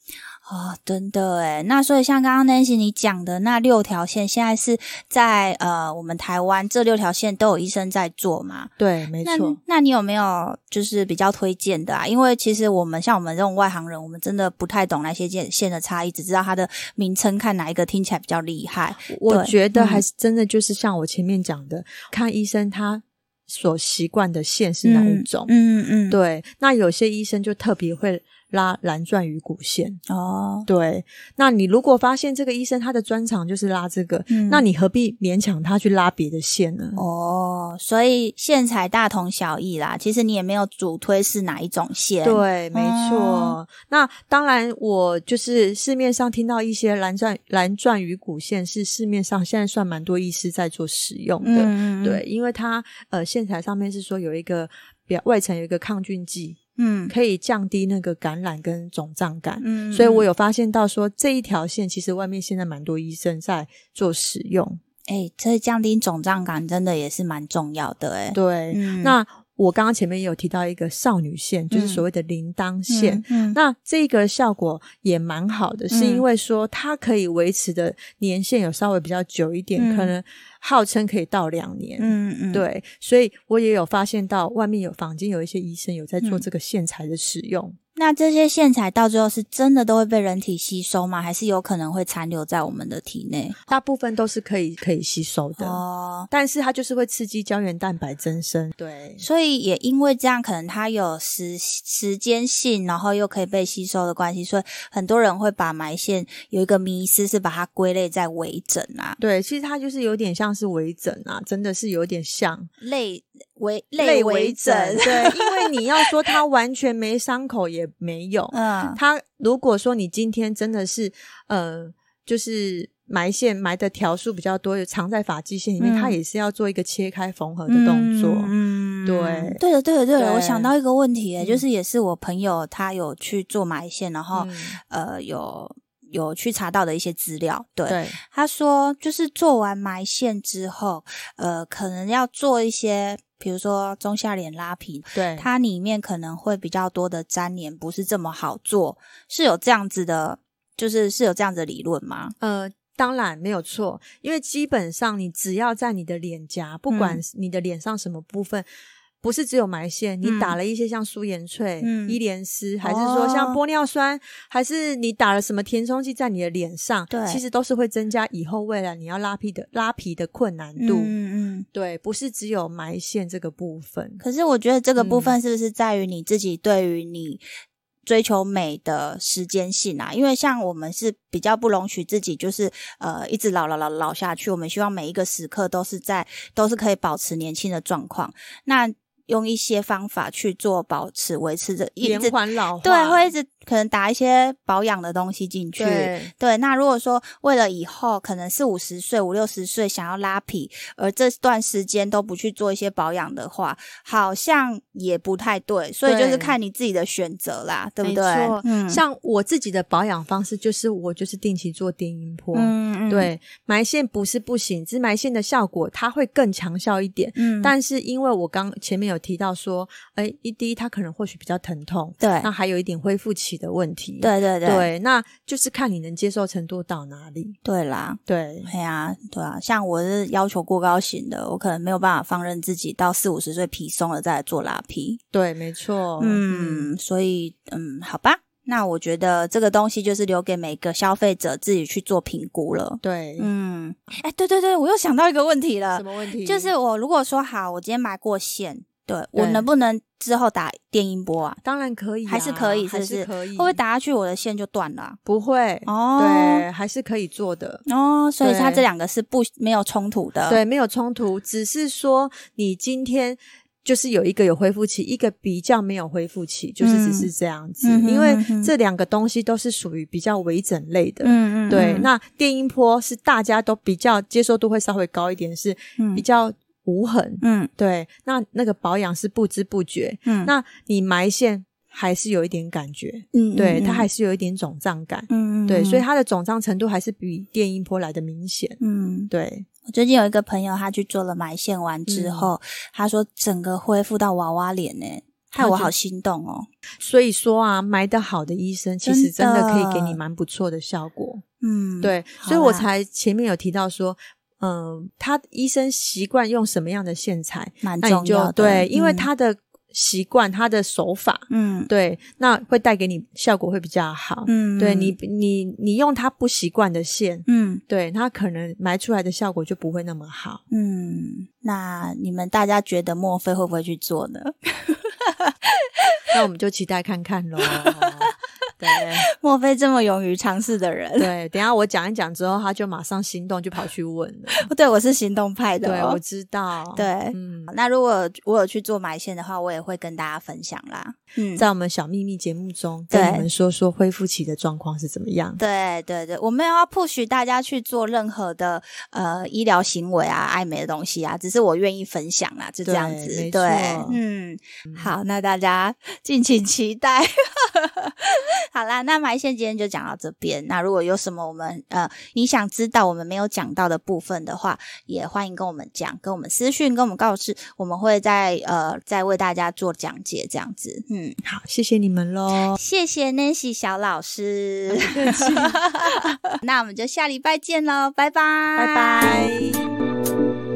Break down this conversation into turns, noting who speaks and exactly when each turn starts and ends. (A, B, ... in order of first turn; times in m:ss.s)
0:00.5-0:08.7 A
0:08.8-0:09.6 B
0:09.2-0:20.0 A
0:19.1-0:25.5 B
0:24.8-0:26.2 A
0:26.1-0:30.0 B
0:30.1-0:30.7 A
0:30.6-0:37.0 B
0:34.3-0:34.6 A
0:37.0-0:43.6 A
0:42.2-0:56.6 B
0:51.4-0:52.2 A
0:56.8-0:57.1 A
0:57.1-1:04.8 B
0:59.6-1:00.3 A
1:05.1-1:09.2 A
1:08.3-1:27.8 B
1:11.7-1:12.0 A
1:12.9-1:13.6 A
1:15.9-1:16.2 A
1:19.8-1:20.1 A
1:22.0-1:22.6 A
1:28.0-1:33.6 A
1:33.7-1:35.8 B
1:35.6-1:36.3 A
1:36.3-1:39.2 B
1:39.2-1:49.2 A
1:49.2-1:52.7 B
1:52.8-1:56.3 A
1:54.0-2:08.5 B
1:58.5-1:59.0 A
2:05.8-2:06.2 A
2:07.7-2:32.3 A
2:09.0-2:09.6 B
2:10.2-2:10.7 B
2:11.4-2:11.6 B
2:14.3-2:14.8 B
2:17.9-2:18.2 B
2:25.1-2:25.5 B
2:32.4-2:38.6 B
2:36.9-2:37.2 A
2:39.2-2:51.1 B
2:40.2-2:40.6 A
2:41.8-2:42.2 A
2:42.8-2:43.6 A
2:47.1-2:47.4 A
2:50.8-2:51.6 A
2:51.7-2:54.2 B
2:54.2-2:57.4 A
2:55.0-2:55.4 B
2:58.0-3:29.0 A
3:12.0-3:13.3 B
3:15.8-3:16.3 B
3:26.0-3:26.6 B
3:28.0-3:47.6 B
3:32.5-3:33.3 A
3:37.4-3:37.7 A
3:42.2-3:42.5 A
3:44.2-3:44.9 A
3:47.6-3:55.2 A
3:48.3-3:48.7 B
3:55.3-3:56.9 B
3:56.2-4:11.6 A
4:03.0-4:03.5 B
4:05.9-4:06.7 B
4:09.3-4:09.6 B
4:11.6-4:13.8 B
4:12.2-4:15.2 A
4:15.2-4:17.8 B
4:15.9-4:16.6 A
4:17.8-4:20.6 A
4:18.4-4:18.8 B
4:20.5-4:49.7 B
4:26.8-4:27.3 A
4:27.8-4:28.7 A
4:31.2-4:32.1 A
4:36.0-4:36.2 A
4:37.4-4:37.7 A
4:40.2-4:40.5 A
4:43.3-4:44.1 A
4:45.3-4:46.0 A
4:48.8-4:49.3 A
4:49.8-4:56.7 A
4:52.1-4:52.5 B
4:55.5-4:55.9 B
4:57.0-5:01.4 B
4:59.0-5:00.2 A
5:01.6-5:02.8 A
5:02.0-5:20.6 B
5:07.8-5:09.3 A
5:11.5-5:11.9 A
5:14.4-5:15.1 A
5:17.4-5:17.8 A
5:20.7-5:26.2 A
5:26.3-5:29.3 B
5:27.7-5:28.3 A
5:29.0-5:31.3 A
5:31.2-5:34.7 B
5:34.5-5:36.2 A
5:35.8-5:37.7 B
5:36.9-5:41.6 A
5:41.6-5:45.6 B
5:43.1-5:43.5 A
5:45.6-6:11.4 A
5:52.8-5:54.2 B
6:11.4-6:12.8 B
6:12.7-6:19.5 A
6:14.9-6:16.4 B
6:18.8-6:19.9 B